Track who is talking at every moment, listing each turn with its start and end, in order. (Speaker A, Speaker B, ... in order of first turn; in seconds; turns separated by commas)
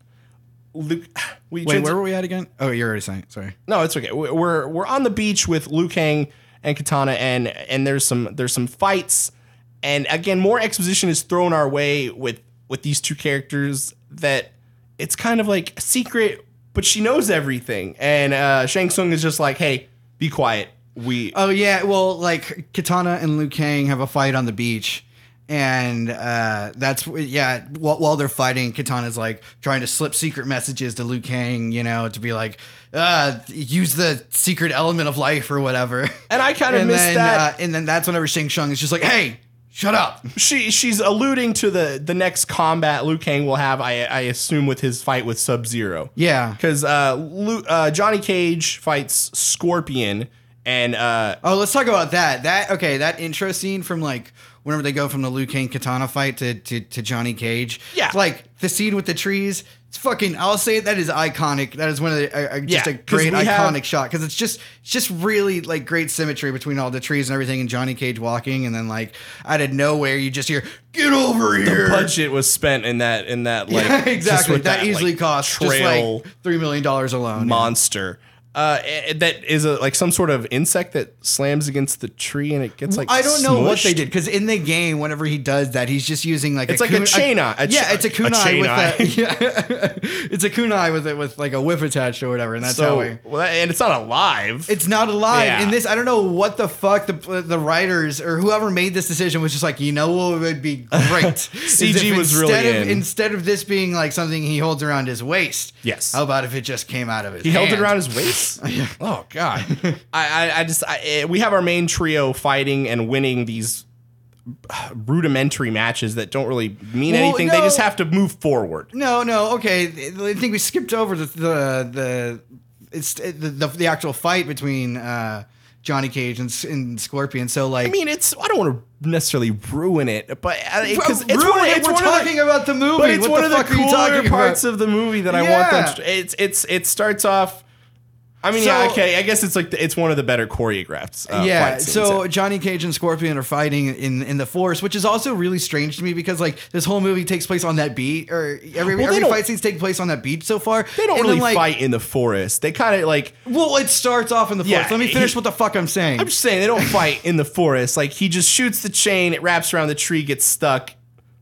Speaker A: 0.7-2.0, Speaker B: 1.6-3.5, Speaker A: 3.7-21.4, Speaker B: 21.3-40.3, Speaker A: 36.3-37.5, Speaker A: 40.3-51.4, Speaker B: 46.1-46.6, Speaker B: 51.4-72.1, Speaker A: 62.7-63.8, Speaker A: 71.6-76.2, Speaker B: 73.7-77.7, Speaker A: 77.3-84.0, Speaker B: 82.9-93.2, Speaker A: 86.7-89.1, Speaker A: 92.6-94.7, Speaker B: 94.7-108.9, Speaker A: 95.3-95.8, Speaker A: 100.9-103.0, Speaker A: 105.8-106.2, Speaker A: 107.4-113.8, Speaker B: 109.6-109.9, Speaker A: 114.7-118.9, Speaker B: 117.0-117.8, Speaker B: 118.9-127.9, Speaker A: 127.8-132.3, Speaker B: 130.8-134.6, Speaker A: 132.9-137.6, Speaker B: 135.3-136.0, Speaker A: 138.4-142.2, Speaker B: 138.5-139.0, Speaker B: 141.3-151.6, Speaker A: 148.8-149.4, Speaker A: 150.9-153.4, Speaker B: 153.4-157.0, Speaker A: 154.6-155.4, Speaker A: 156.2-160.9